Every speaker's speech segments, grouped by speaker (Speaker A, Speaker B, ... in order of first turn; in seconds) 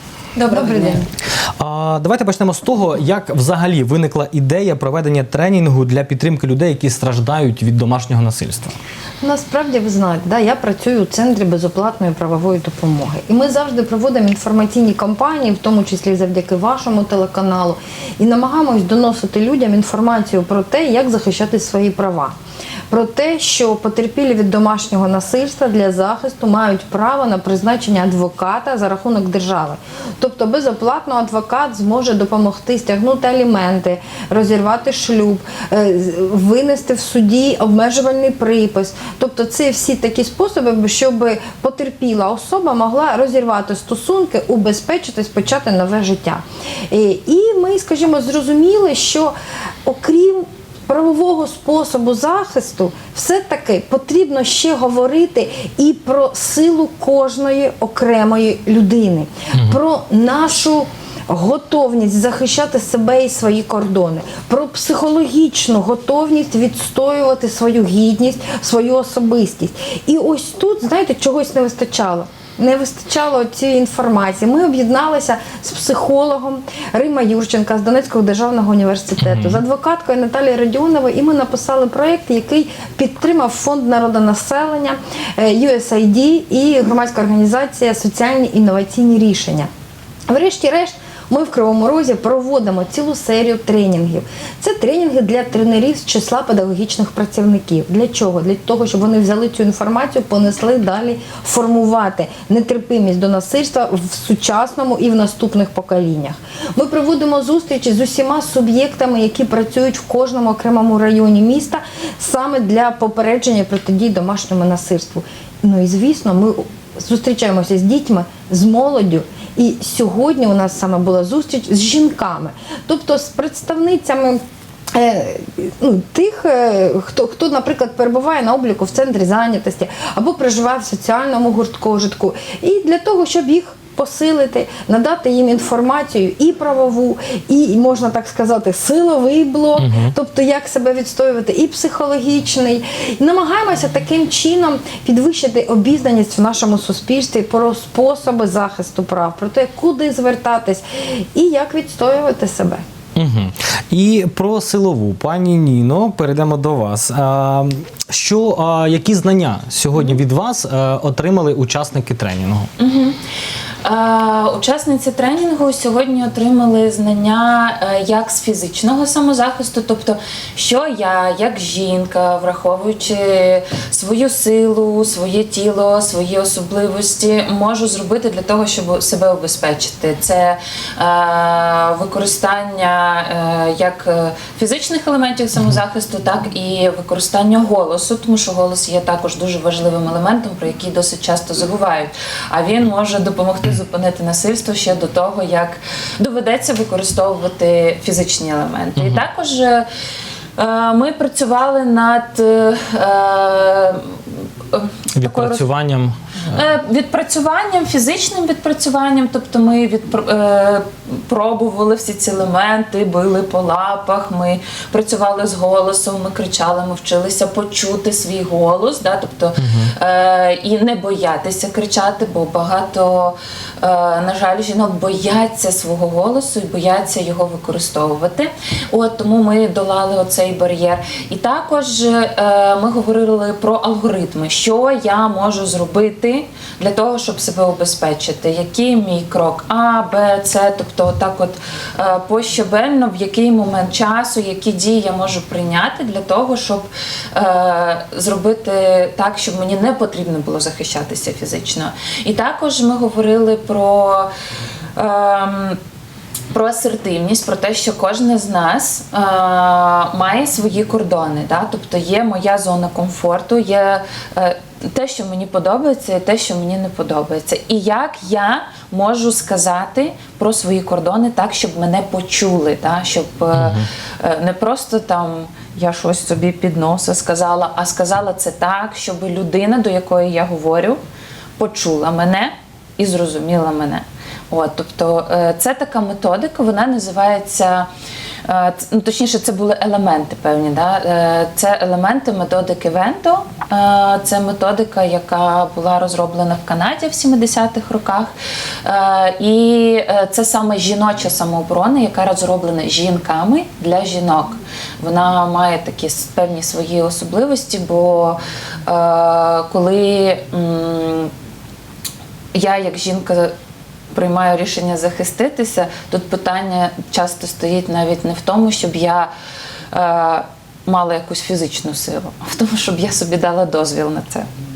Speaker A: 0.3-1.1, 159.9-160.2, 162.8-163.2, 163.8-199.8, 200.6-205.6, 206.5-254.3, 254.9-255.8, 256.5-281.0, 281.6-287.9, 288.4-298.3, 298.8-311.3, 312.5-313.5, 314.1-319.3, 319.9-324.5
Speaker B: 0.5-1.0, 9.2-22.3, 22.9-49.3, 49.8-89.7, 90.3-124.4, 124.9-152.8
Speaker C: 1.6-8.8, 79.2-79.6, 139.8-140.1, 153.2-162.7, 199.0-199.2, 205.2-206.2, 219.6-219.9, 273.5-273.8